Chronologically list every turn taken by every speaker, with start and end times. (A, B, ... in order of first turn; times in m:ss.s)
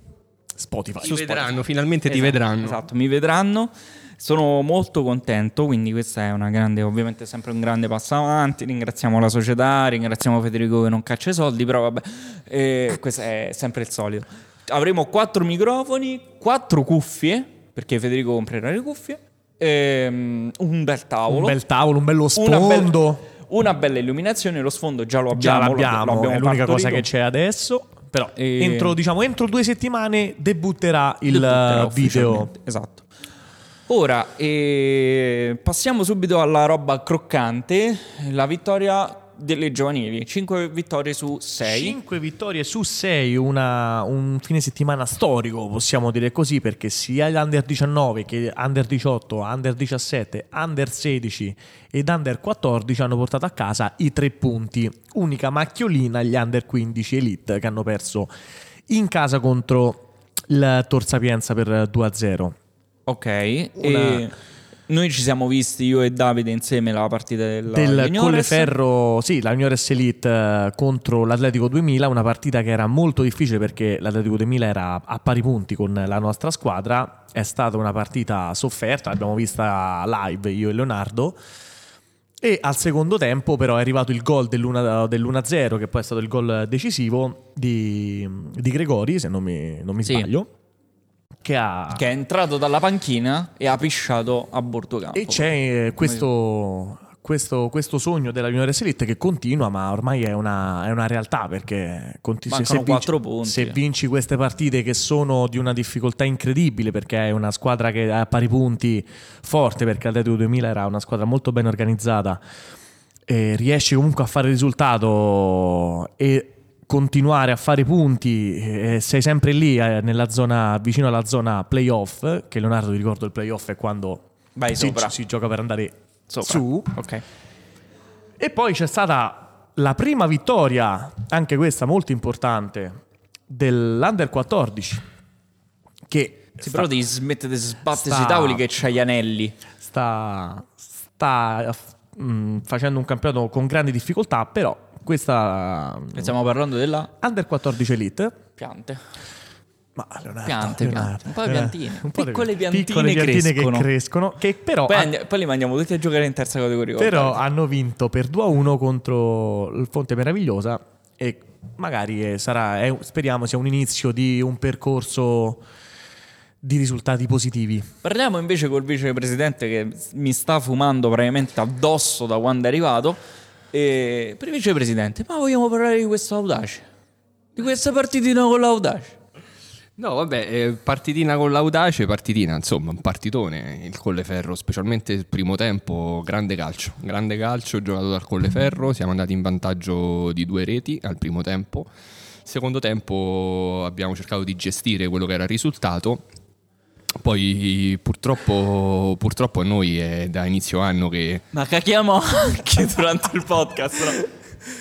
0:00.6-0:01.6 A
0:01.0-0:02.8 B
0:02.1-0:21.6 C
0:21.3-0:23.3 A
0:22.4-0:27.1 C
0:25.3-0:32.5 A
0:28.4-0:29.0 C
0:31.3-0:33.0 C
0:33.9-0:42.0 C
0:41.6-0:58.3 A
0:58.9-1:02.6 A
1:03.1-1:04.4 C
1:03.8-1:04.3 A
1:04.9-1:08.7 C
1:07.7-1:21.4 A
1:22.4-1:30.5 A
1:30.0-1:30.3 C
1:31.4-1:32.1 A
1:31.9-1:35.5 C
1:35.1-1:52.4 A
1:36.0-1:36.3 C
1:42.5-1:43.8 C
1:53.3-2:07.0 A
2:04.6-2:05.2 C
2:06.3-2:07.2 C
2:08.4-2:15.1 A
2:16.1-2:16.9 A
2:16.6-2:19.6 C
2:17.9-2:18.7 A
2:19.8-2:26.4 A
2:26.1-2:27.1 C
2:27.2-2:28.4 A
2:28.6-2:29.0 C
2:30.0-2:35.1 A
2:30.4-2:33.9 C
2:34.9-2:37.4 C
2:37.0-2:45.6 A
2:46.6-2:47.9 A
2:48.0-2:53.2 C
2:53.7-2:56.8 C
2:57.6-2:59.2 C
3:00.0-3:11.9 B
3:12.4-3:16.3 B
3:17.2-3:21.4 B
3:21.5-3:24.3 C